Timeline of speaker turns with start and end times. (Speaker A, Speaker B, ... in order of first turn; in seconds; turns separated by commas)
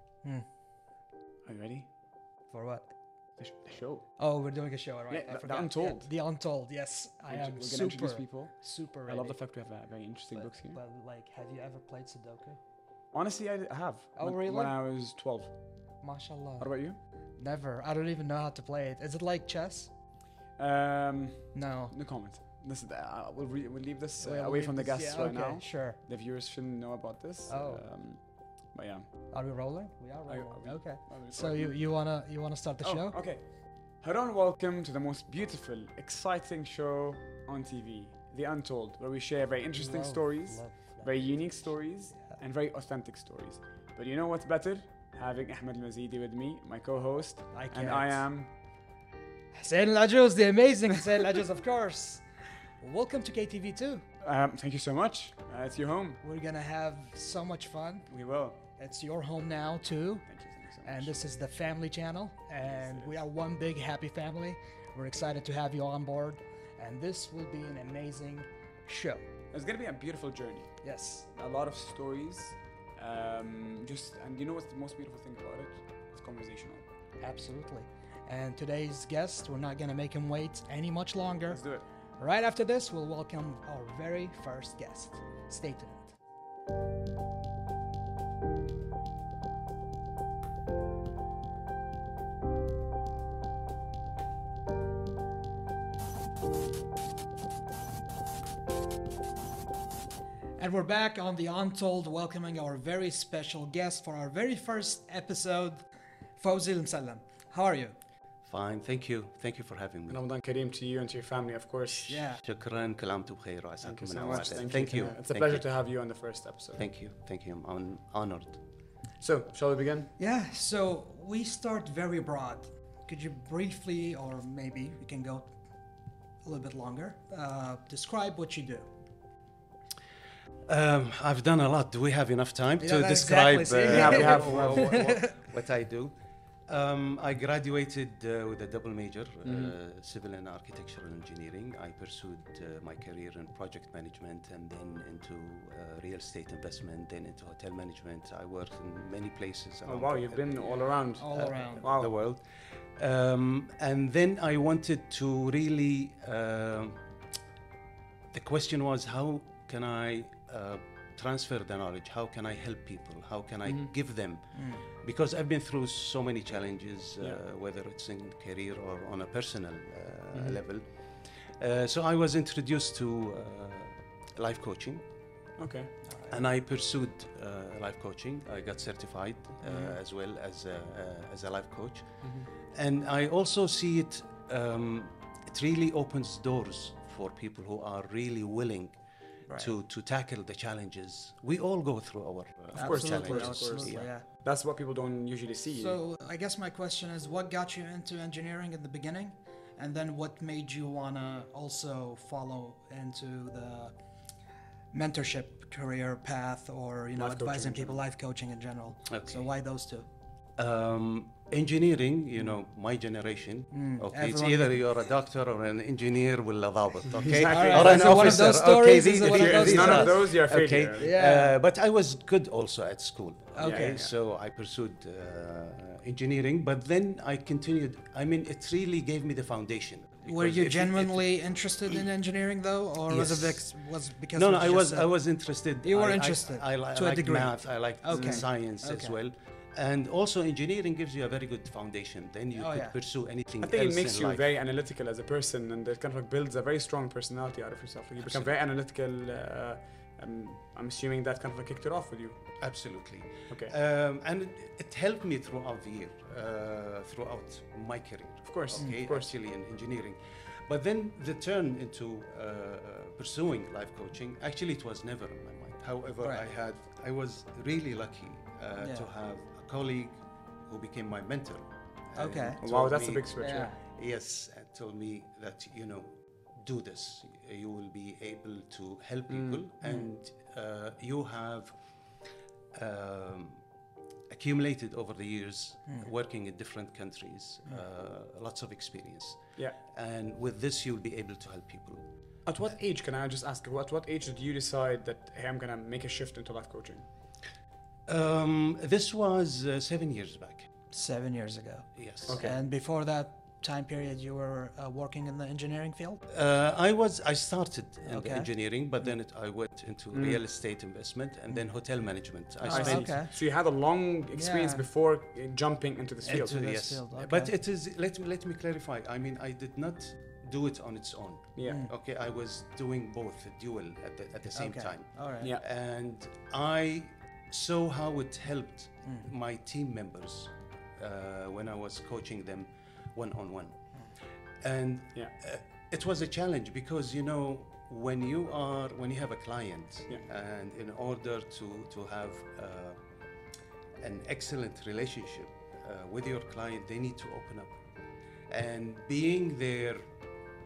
Speaker A: 1.5-1.9, Speaker B: 2.5-2.9, Speaker A: 3.4-4.1, Speaker B: 4.2-9.4, Speaker A: 5.1-6.1, Speaker A: 7.3-10.8, Speaker B: 10.3-12.6, Speaker A: 13.1-15.5, Speaker B: 14.2-14.8, Speaker B: 16.0-16.7, Speaker A: 16.6-17.0, Speaker B: 17.4-19.9, Speaker A: 20.6-29.1, Speaker B: 21.5-21.9, Speaker B: 24.2-26.0, Speaker B: 27.5-27.8, Speaker B: 29.3-33.2, Speaker A: 30.3-31.8, Speaker A: 32.8-48.5, Speaker B: 39.8-42.4, Speaker B: 47.5-48.2, Speaker B: 49.5-52.2, Speaker B: 52.8-54.1, Speaker A: 54.2-56.2, Speaker B: 56.2-58.1, Speaker A: 58.1-58.6, Speaker B: 58.8-60.3, Speaker A: 60.3-61.1, Speaker B: 60.8-69.2, Speaker A: 62.6-63.1, Speaker A: 69.5-70.7, Speaker B: 70.8-71.3, Speaker A: 71.3-76.8, Speaker B: 77.2-81.6, Speaker A: 81.5-81.8, Speaker B: 82.2-86.2, Speaker B: 100.6-105.8, Speaker B: 106.4-108.0, Speaker C: 108.5-110.2, Speaker A: 110.1-112.2, Speaker B: 112.0-112.4, Speaker C: 112.4-115.7, Speaker A: 113.8-116.9, Speaker C: 116.8-118.6, Speaker A: 119.2-120.1, Speaker B: 120.2-125.5, Speaker B: 126.4-128.9, Speaker C: 130.7-136.2, Speaker B: 132.8-135.3, Speaker A: 133.9-135.0, Speaker C: 136.7-150.6, Speaker A: 139.4-139.7, Speaker A: 149.9-152.1, Speaker B: 151.2-151.9, Speaker C: 151.3-152.4, Speaker C: 153.0-157.0, Speaker C: 158.3-175.1, Speaker B: 164.5-164.8, Speaker A: 170.3-170.6, Speaker A: 175.6-175.9, Speaker B: 176.1-176.3, Speaker C: 176.3-189.0, Speaker A: 179.7-179.9, Speaker B: 189.5-189.7, Speaker C: 189.6-194.1, Speaker B: 192.8-194.2, Speaker A: 192.8-196.0, Speaker B: 195.7-203.9, Speaker B: 204.9-210.1, Speaker A: 207.2-208.0, Speaker C: 209.1-209.5, Speaker C: 210.6-231.2, Speaker B: 213.7-214.8, Speaker A: 217.1-218.6, Speaker B: 217.3-220.3, Speaker A: 219.1-221.1, Speaker B: 221.0-221.6, Speaker B: 223.6-224.1, Speaker A: 223.6-224.1, Speaker B: 230.2-235.1, Speaker C: 233.1-233.7, Speaker C: 234.3-244.5, Speaker B: 235.8-239.2, Speaker A: 238.1-238.5, Speaker B: 242.6-242.9, Speaker A: 243.6-252.4, Speaker C: 248.2-248.5, Speaker C: 252.6-281.7, Speaker A: 258.5-259.3, Speaker B: 268.8-269.1, Speaker B: 272.2-272.6, Speaker A: 272.6-273.7, Speaker B: 273.4-273.8, Speaker A: 279.3-280.1, Speaker C: 282.7-283.6, Speaker C: 284.3-292.1, Speaker A: 292.5-297.1, Speaker C: 298.1-300.7, Speaker B: 300.9-306.2, Speaker C: 302.0-302.4, Speaker A: 302.3-302.6, Speaker C: 306.3-313.1, Speaker B: 308.1-308.5, Speaker A: 310.1-310.4, Speaker B: 312.6-313.3, Speaker A: 312.7-316.6, Speaker B: 314.3-314.8, Speaker C: 316.2-333.8, Speaker B: 316.3-317.5, Speaker A: 321.6-321.9, Speaker B: 321.7-321.9, Speaker B: 324.5-325.5, Speaker C: 334.6-343.0, Speaker C: 344.0-347.8, Speaker C: 348.5-350.1